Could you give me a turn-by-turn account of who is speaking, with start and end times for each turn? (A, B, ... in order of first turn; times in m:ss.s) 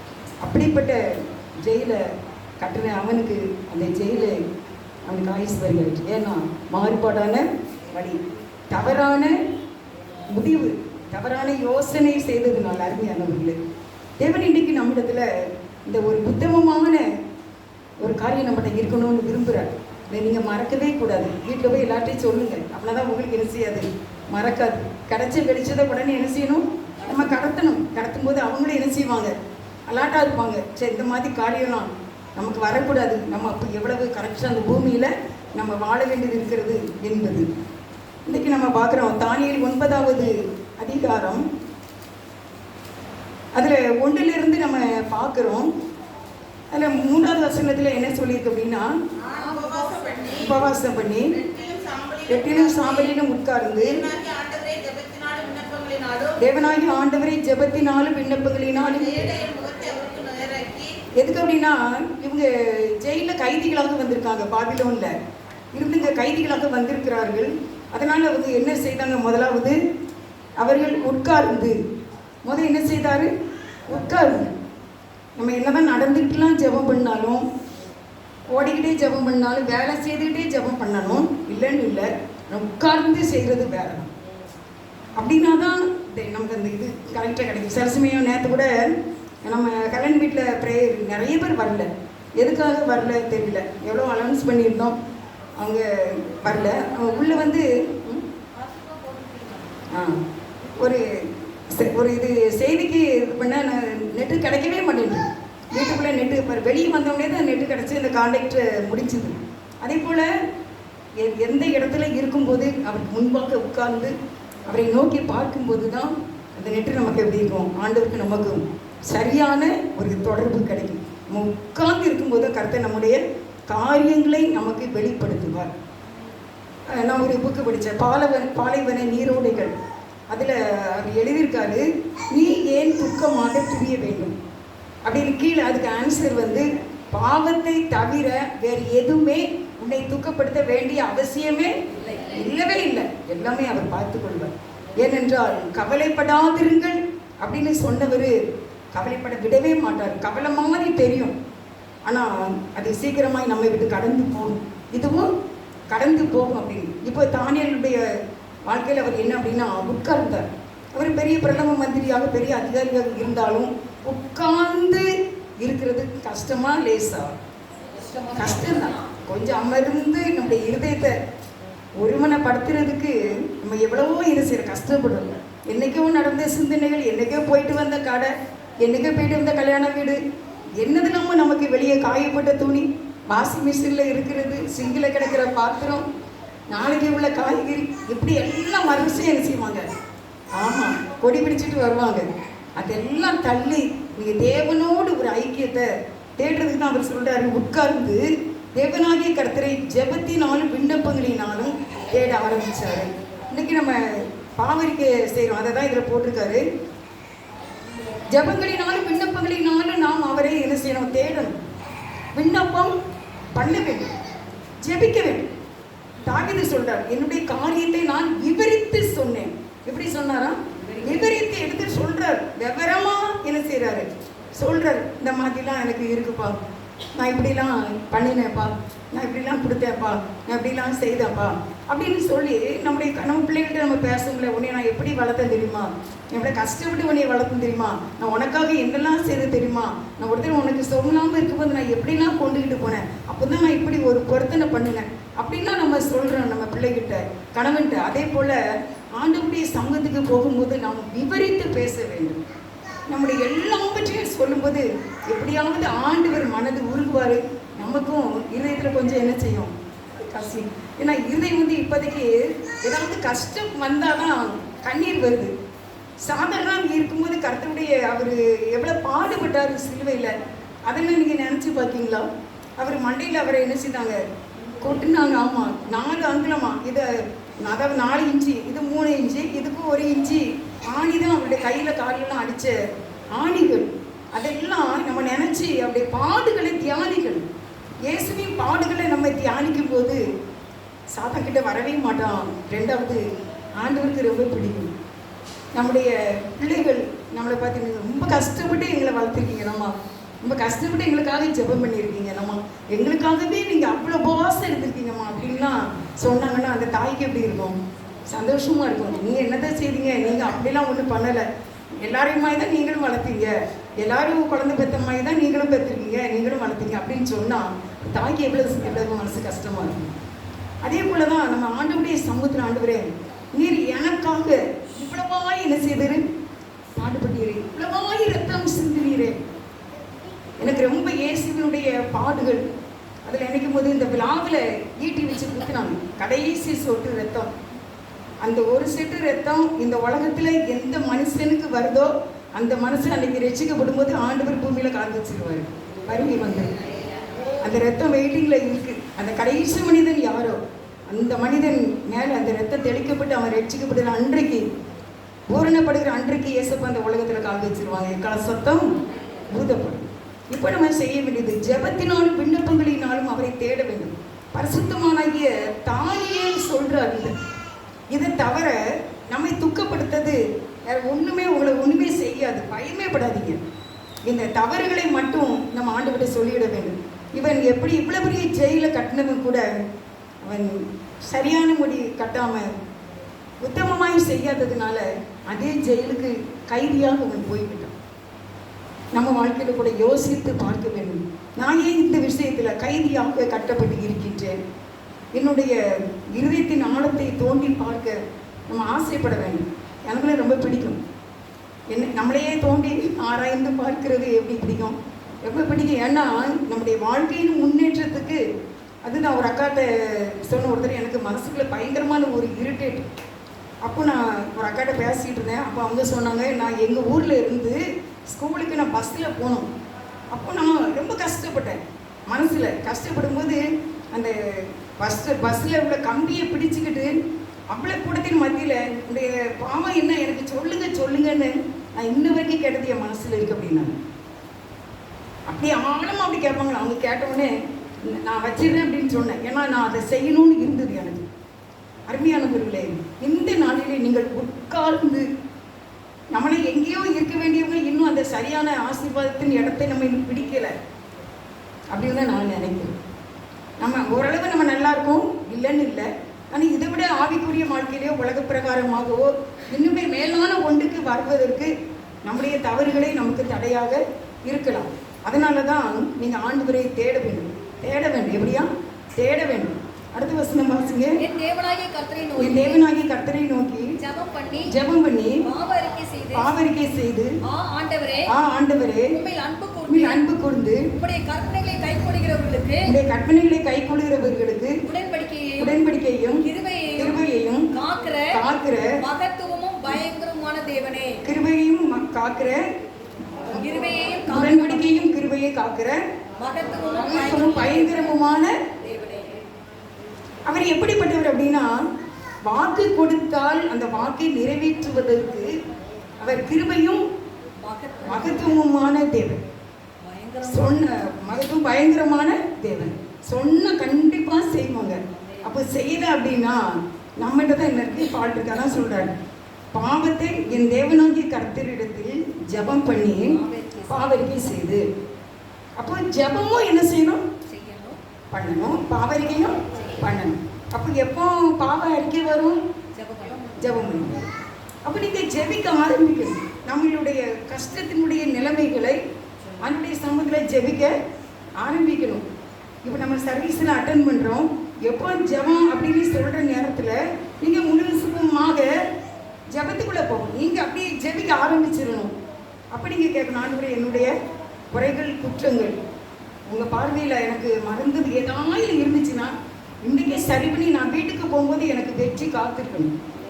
0:00.4-0:01.0 A
0:01.6-0:02.0 A
0:02.6-0:04.4 A
0:05.1-0:09.4 A
0:10.3-0:13.6 A
0:14.2-0:17.0 A
0:18.0-0:29.3 A
0:29.9-0:37.5 A
0:38.3-0:41.4 A
0:43.6-0:45.7 A
0:46.7-0:48.9 A
0:49.2-0:53.2 B
0:49.3-0:50.4 C
0:50.4-0:51.3 A
0:52.3-0:54.0 A
0:53.8-0:56.4 B
0:56.4-0:59.3 A
0:58.8-1:00.9 B
1:01.2-1:05.2 A
1:05.7-1:09.8 A
1:10.6-1:11.8 A
1:12.4-1:13.3 A
1:13.9-1:14.6 A
1:15.4-1:17.4 A
1:18.5-1:24.1 A
1:25.2-1:35.0 A
1:35.6-1:38.2 A
1:38.7-1:39.6 C
1:39.9-1:40.2 A
1:40.8-1:50.3 A
1:51.2-1:54.2 A
1:54.7-2:05.7 A
2:06.9-2:09.8 A
2:10.3-2:14.4 A
2:15.0-2:28.4 A
2:22.0-2:22.4 C
2:28.9-2:31.4 A
2:32.1-2:35.3 A
2:35.9-2:38.1 A
2:38.7-2:45.1 A
2:45.6-2:47.4 A
2:47.9-2:49.0 C
2:48.3-2:51.2 A
2:52.0-3:00.2 A
3:00.8-3:06.0 A
3:06.7-3:09.9 A
3:10.6-3:12.3 A
3:12.8-3:26.6 A
3:28.3-3:31.6 A
3:32.4-3:33.0 A
3:33.5-3:34.1 A
3:34.8-3:35.5 A
3:36.2-3:46.6 A
3:40.8-3:41.3 C
3:47.2-4:12.4 A
4:13.1-4:25.5 A
4:26.2-4:30.3 A
4:30.9-4:32.3 A
4:32.8-4:34.2 A
4:34.8-4:42.8 A
4:43.4-4:47.4 A
4:48.1-4:50.2 A
4:51.1-4:53.3 A
4:53.8-4:54.9 A
4:55.8-5:07.8 A
5:08.3-5:11.5 A
5:12.0-5:20.1 A
5:20.8-5:26.2 A
5:27.0-5:29.4 A
5:30.6-5:32.6 A
5:33.3-5:37.5 A
5:38.4-5:46.7 A
5:47.6-5:54.7 A
5:55.5-5:59.0 A
5:59.5-6:07.3 A
6:08.1-6:08.8 A
6:09.3-6:13.6 A
6:14.3-6:19.6 A
6:20.4-6:22.8 A
6:23.6-6:28.0 A
6:29.1-6:34.6 A
6:35.3-6:35.8 A
6:36.3-6:41.0 A
6:41.9-6:48.4 A
6:49.0-6:53.1 A
6:53.8-6:59.7 A
7:00.3-7:07.2 A
7:07.7-7:14.0 A
7:15.5-7:17.5 A
7:18.0-7:21.3 A
7:22.1-7:25.3 A
7:26.3-7:30.8 A
7:31.9-7:33.0 A
7:33.8-7:41.7 A
7:42.2-7:51.2 A
7:51.2-7:52.8 C
7:52.4-7:54.0 A
7:54.0-7:54.8 C
7:54.7-7:55.5 A
7:55.4-7:56.5 C
7:56.3-7:57.4 A
7:57.4-7:58.3 C
7:58.3-7:59.2 A
7:59.1-8:00.2 C
7:59.9-8:00.9 A
8:00.9-8:02.9 C
8:02.8-8:04.8 A
8:04.8-8:05.8 C
8:05.6-8:07.7 A
8:06.4-8:07.2 C
8:07.7-8:08.4 C
8:08.3-8:09.0 A
8:09.0-8:11.2 C
8:11.2-8:12.7 A
8:13.5-8:15.1 C
8:14.2-8:16.0 A
8:16.4-8:19.4 C
8:17.0-8:18.6 A
8:20.5-8:21.8 A
8:22.5-8:25.5 A
8:26.2-8:27.0 A
8:27.6-8:28.6 C
8:28.0-8:29.4 A
8:30.0-8:30.8 C
8:30.4-8:39.2 A
8:39.7-8:44.8 A
8:43.3-8:44.3 C
8:45.8-8:47.2 A
8:47.5-8:48.0 C
8:48.3-8:52.6 A
8:52.9-8:53.8 C
8:53.6-8:54.3 A
8:54.8-8:59.0 A
8:59.6-9:01.0 A
9:01.6-9:02.2 A
9:02.8-9:08.7 A
9:09.5-9:12.1 A
9:12.7-9:14.1 A
9:14.7-9:15.8 A
9:16.5-9:22.9 A